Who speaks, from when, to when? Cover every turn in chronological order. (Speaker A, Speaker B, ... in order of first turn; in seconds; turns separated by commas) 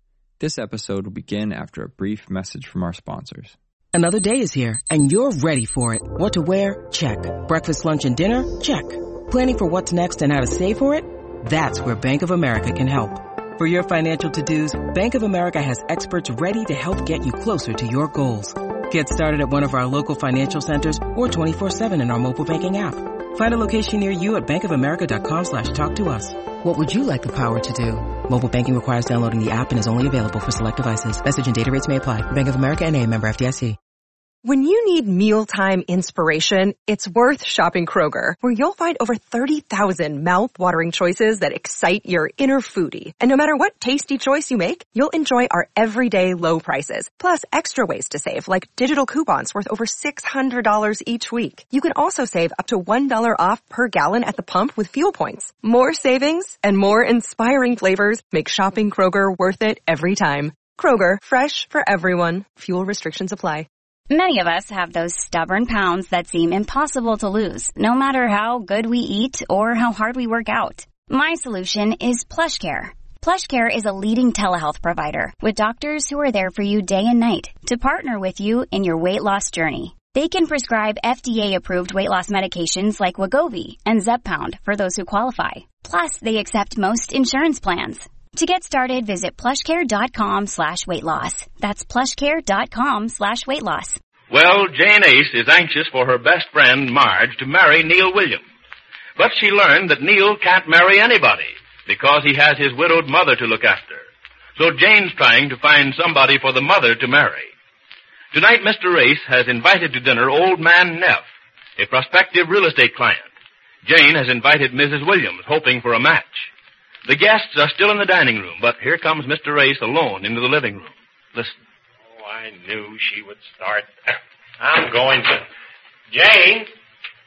Speaker A: 0.4-3.5, Speaker B: 3.9-33.8, Speaker C: 34.4-63.7, Speaker D: 64.1-94.0, Speaker E: 94.3-98.4, Speaker E: 99.2-107.5, Speaker E: 108.3-113.3, Speaker E: 113.8-116.5, Speaker E: 117.0-121.5, Speaker F: 122.0-125.4, Speaker F: 126.1-126.7